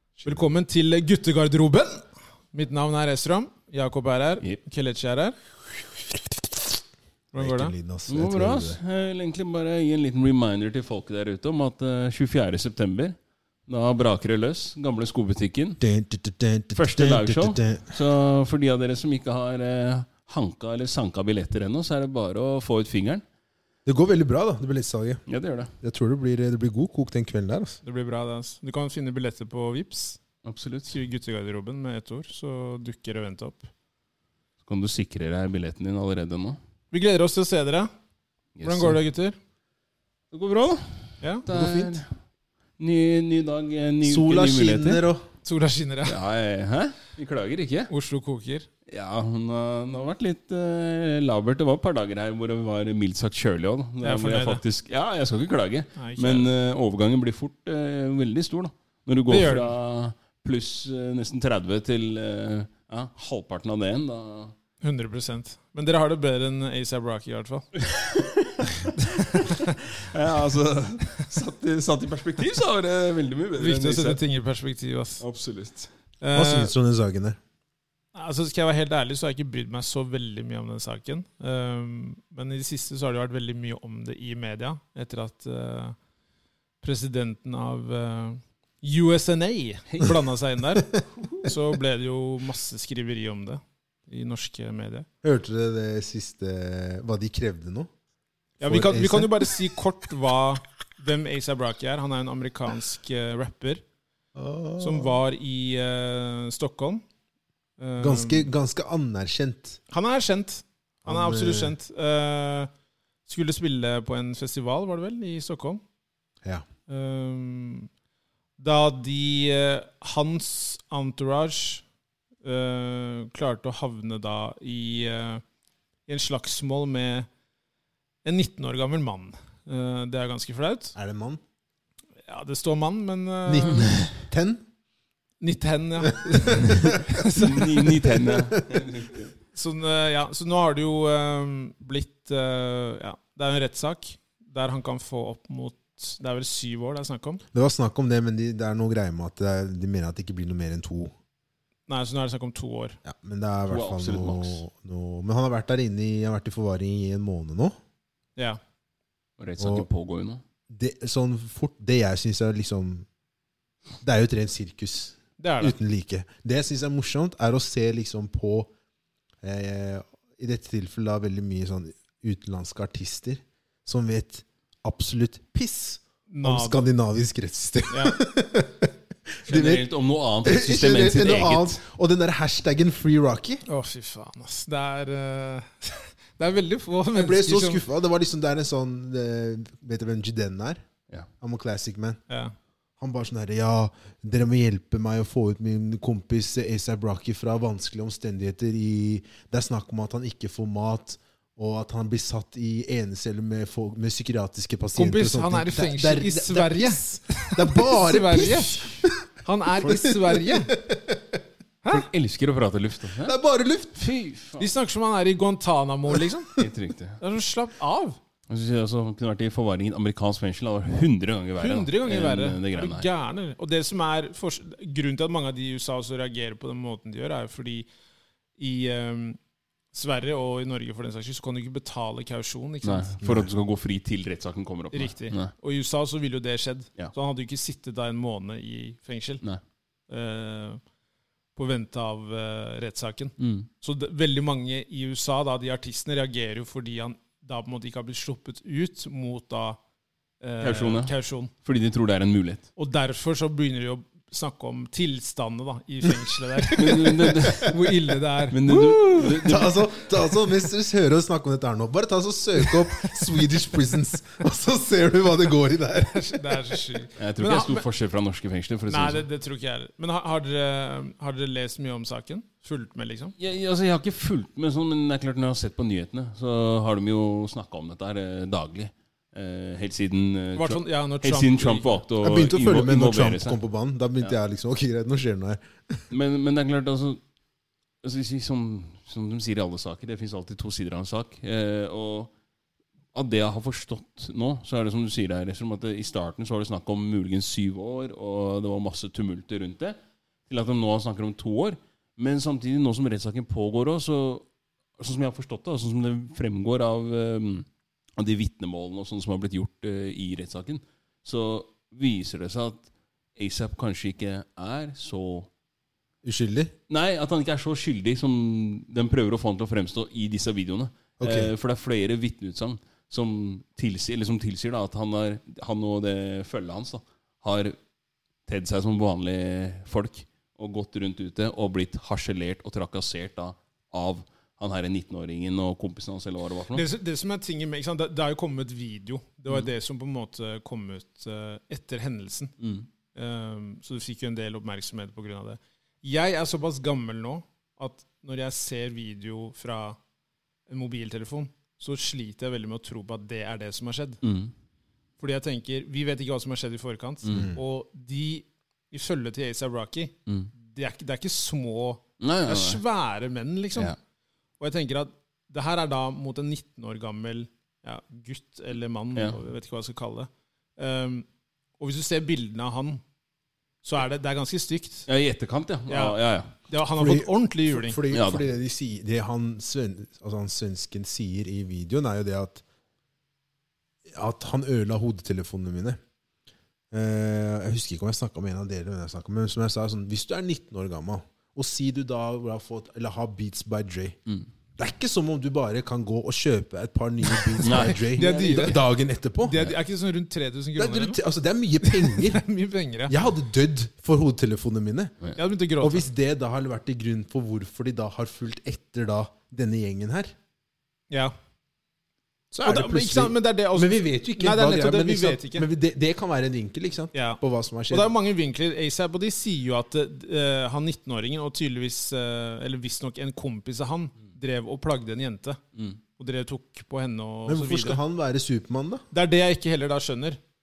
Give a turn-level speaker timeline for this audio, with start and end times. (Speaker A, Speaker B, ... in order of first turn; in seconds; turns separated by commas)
Speaker A: 0.2-0.4, Speaker B: 0.2-5.4, Speaker B: 7.3-7.7, Speaker A: 7.3-8.8, Speaker C: 8.1-15.8, Speaker A: 15.8-18.0, Speaker C: 16.8-23.2, Speaker A: 23.9-25.2, Speaker C: 25.3-25.7, Speaker A: 25.8-27.8, Speaker B: 27.8-30.2, Speaker C: 30.4-31.0, Speaker B: 30.9-33.7, Speaker C: 34.6-36.6, Speaker B: 36.9-37.9, Speaker C: 38.6-39.0, Speaker B: 38.6-39.4, Speaker C: 40.3-42.1, Speaker A: 41.5-42.0, Speaker C: 42.8-45.1, Speaker A: 44.0-45.3, Speaker B: 45.5-46.2, Speaker C: 46.1-47.9, Speaker B: 47.9-48.7, Speaker C: 48.9-64.5, Speaker B: 54.0-54.6, Speaker B: 56.0-56.5, Speaker B: 59.3-59.7, Speaker B: 64.8-67.7, Speaker C: 67.8-74.2, Speaker B: 73.6-75.2, Speaker C: 75.2-75.9, Speaker B: 76.2-76.7, Speaker A: 76.3-77.4, Speaker B: 78.1-86.0, Speaker B: 86.8-95.1, Speaker A: 95.2-97.9, Speaker B: 98.6-103.8, Speaker A: 98.6-99.5, Speaker A: 104.3-105.1, Speaker B: 104.8-107.0, Speaker B: 107.8-108.5, Speaker A: 108.0-109.8, Speaker B: 109.9-112.7, Speaker A: 111.0-111.8, Speaker B: 113.3-115.8, Speaker B: 116.9-117.9, Speaker B: 118.6-121.8, Speaker B: 122.4-125.4, Speaker B: 126.1-127.3, Speaker B: 128.2-130.9, Speaker A: 130.9-131.4, Speaker B: 132.3-134.1, Speaker A: 133.5-134.6, Speaker B: 135.4-137.8, Speaker A: 136.2-137.3, Speaker C: 137.2-139.3, Speaker A: 138.0-138.6, Speaker B: 139.5-147.4, Speaker A: 147.5-151.1, Speaker B: 151.9-153.0, Speaker A: 153.1-157.8, Speaker C: 153.7-154.6, Speaker C: 159.4-160.4, Speaker A: 159.6-159.9, Speaker A: 160.7-163.1, Speaker A: 164.0-168.7, Speaker B: 165.4-165.8, Speaker A: 169.4-179.8, Speaker B: 176.3-176.9, Speaker B: 177.9-178.2, Speaker C: 179.5-181.8, Speaker A: 180.4-183.6, Speaker B: 183.7-187.8, Speaker A: 187.2-190.8, Speaker A: 191.4-192.2, Speaker B: 192.3-192.6, Speaker A: 193.0-209.2, Speaker B: 204.9-208.9, Speaker B: 209.4-210.7, Speaker A: 209.8-211.4, Speaker C: 211.9-213.3, Speaker A: 213.2-214.0, Speaker C: 214.0-214.7, Speaker B: 214.6-216.6, Speaker C: 216.6-217.2, Speaker B: 217.2-218.2, Speaker C: 218.5-223.1, Speaker B: 221.6-227.9, Speaker B: 228.6-229.4, Speaker B: 229.9-233.2, Speaker C: 232.8-235.5, Speaker A: 233.2-233.5, Speaker B: 234.9-239.4, Speaker B: 240.1-240.8, Speaker B: 241.6-249.8, Speaker C: 243.4-243.7, Speaker B: 250.4-251.5, Speaker C: 250.6-251.1, Speaker C: 251.6-252.7, Speaker B: 252.8-259.7, Speaker C: 256.8-257.9, Speaker C: 258.5-259.8, Speaker A: 259.4-266.8, Speaker B: 266.1-267.9, Speaker C: 267.2-269.2, Speaker B: 268.9-273.4, Speaker C: 273.4-283.6, Speaker B: 280.6-282.0, Speaker A: 282.2-286.0, Speaker C: 286.1-287.2, Speaker C: 288.0-292.3, Speaker C: 293.1-300.0, Speaker C: 300.5-304.5, Speaker C: 305.0-315.5, Speaker A: 316.2-316.7, Speaker C: 316.9-327.8, Speaker A: 321.2-321.5, Speaker C: 328.5-336.9, Speaker B: 336.7-342.5, Speaker C: 342.6-342.9, Speaker B: 343.1-350.0, Speaker B: 350.7-354.2, Speaker C: 354.2-354.5, Speaker B: 355.2-363.9, Speaker A: 357.3-357.6, Speaker C: 362.2-362.8, Speaker B: 364.6-371.3, Speaker B: 371.8-373.0, Speaker B: 373.8-375.1, Speaker C: 375.1-376.5, Speaker B: 375.9-378.0, Speaker A: 377.0-382.6, Speaker C: 378.1-378.5, Speaker A: 384.1-386.0, Speaker A: 386.9-394.2, Speaker A: 394.8-399.6, Speaker C: 397.6-398.6, Speaker B: 397.6-398.8, Speaker B: 399.4-401.2, Speaker A: 400.8-402.4, Speaker B: 401.8-403.2, Speaker A: 403.1-405.2, Speaker B: 405.4-406.1, Speaker A: 405.8-410.3, Speaker A: 412.5-418.1, Speaker B: 412.6-415.7, Speaker B: 417.1-425.6, Speaker B: 426.2-428.0, Speaker A: 427.5-429.0, Speaker B: 429.1-430.4